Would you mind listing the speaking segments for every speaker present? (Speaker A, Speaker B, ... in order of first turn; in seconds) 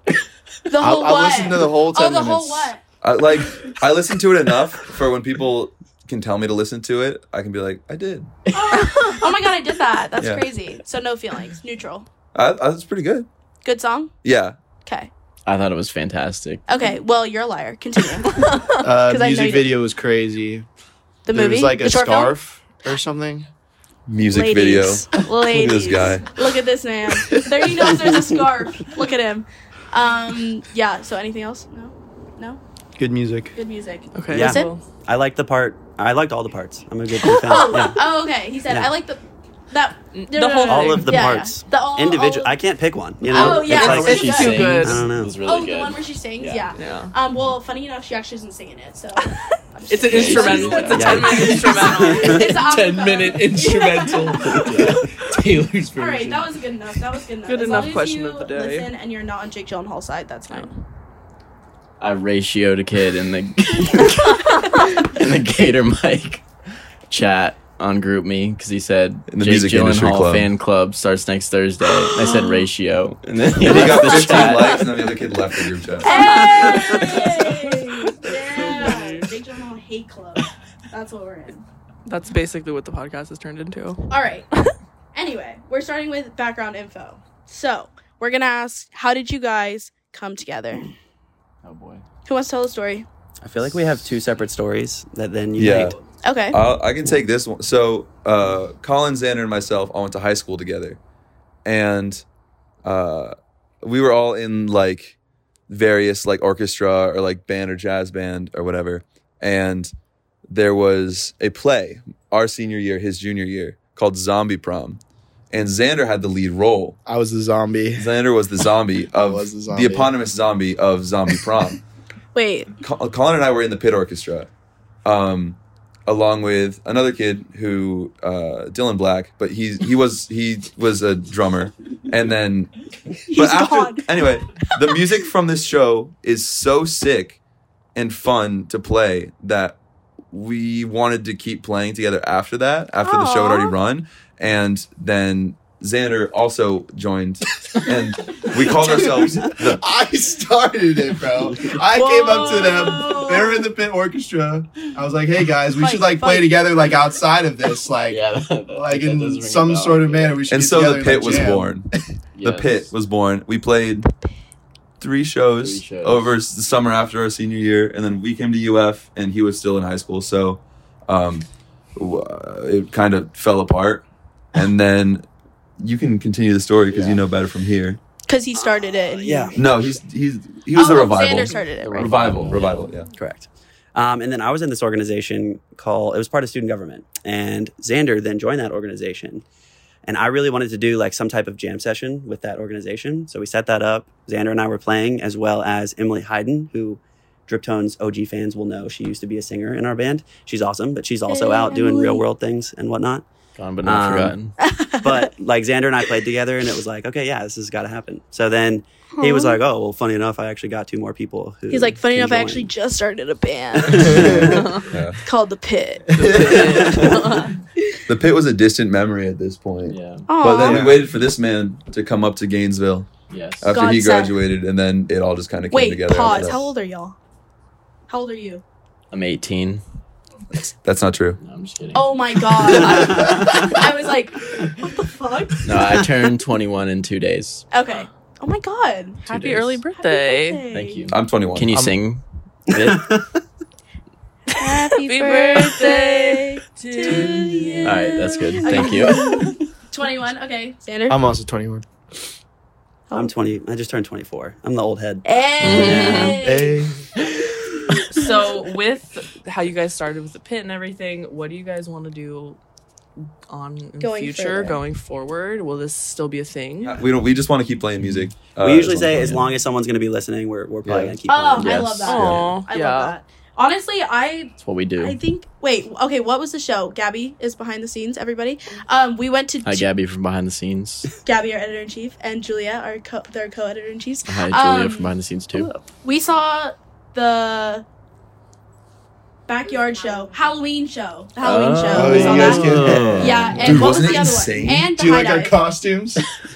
Speaker A: 0.7-2.8, 8.5-12.1, 13.6-14.1, 14.8-15.1, 16.7-18.3, 19.0-19.8, 21.2-22.4, 24.2-32.6, 33.5-34.7, 37.4-42.5, 43.3-44.7, 45.4-54.9, 56.0-60.8, 76.0-81.7, 84.1-84.5, 85.1-90.9, 92.3-93.1, 96.2-96.6, 122.3-122.7, 133.3-134.7, 143.0-143.8, 151.9-153.7, 155.8-156.7, 178.3-179.8, 180.7-182.2, 201.3-202.3, 204.6-205.3, 209.2-209.6, 211.7-214.2, 215.2-216.6, 220.3-220.8, 223.7-224.4, 225.7-227.2, 228.1-228.6, 231.9-235.9, 237.7-239.3, 239.9-241.0, 244.6-251.2, 255.2-256.8, 264.0-264.8, 271.3-279.9, 281.2-285.1, 286.0-287.9, 289.5-295.6
Speaker B: 0.8-2.7, 18.8-20.7, 21.3-23.5, 27.2-28.2, 33.0-33.5, 52.5-56.5, 117.1-118.1, 119.1-120.1, 148.8-161.8, 213.9-214.6, 216.2-217.0, 220.6-221.0, 251.1-251.9, 256.4-257.1, 291.9-293.9, 294.9-296.3
Speaker C: 3.0-8.3, 10.2-10.5, 12.3-13.3, 14.2-14.6, 24.1-26.3, 69.3-70.5, 73.6-76.8, 95.6-96.0, 96.5-101.0, 101.7-102.2, 102.8-105.2, 105.7-109.9, 110.5-117.0, 118.0-121.8, 122.8-124.5, 125.0-132.7, 133.3-137.4, 137.9-139.8, 140.3-149.8, 160.5-161.9, 162.4-164.1, 165.0-175.3, 175.8-178.0, 179.5-183.1, 214.1-214.4, 214.9-215.2, 218.1-223.1, 223.6-226.7, 230.6-231.4, 241.1-241.8, 266.9-269.5, 270.9-271.2, 272.1-272.6, 293.6-294.9
Speaker D: 8.7-9.3, 18.4-18.6, 34.1-34.8, 37.2-37.9, 40.1-41.3, 43.3-45.1, 46.7-47.1, 49.9-55.0, 57.5-58.9, 74.5-74.8, 76.0-77.4, 78.2-79.3, 82.1-84.0, 214.5-214.9, 216.1-217.5, 232.8-233.7, 239.3-240.6, 245.0-247.8, 255.6-256.4, 258.1-262.6, 263.5-267.0, 272.0-273.2, 285.5-285.9
Speaker E: 15.5-16.6, 43.7-46.7, 50.1-51.4, 54.4-55.0, 62.0-66.4, 67.1-74.8, 76.7-77.8, 91.6-92.0, 158.1-160.4, 162.3-162.9, 165.6-166.4, 176.9-177.2, 181.4-182.9, 203.6-204.6, 219.8-220.3, 223.3-223.9, 229.1-229.8, 231.4-232.8, 235.7-237.7, 239.3-239.8, 240.7-243.1, 247.8-249.2, 271.6-272.4, 274.6-275.2, 279.6-281.1, 284.2-285.7, 291.4-293.7
Speaker F: 34.2-38.0, 38.7-38.9, 40.6-45.4, 51.0-52.4, 93.4-96.0, 178.6-179.6, 183.1-189.4, 190.1-203.2, 203.8-204.4, 205.0-212.7, 214.0-214.6, 216.8-217.1, 242.8-243.2, 253.1-256.4, 268.6-271.8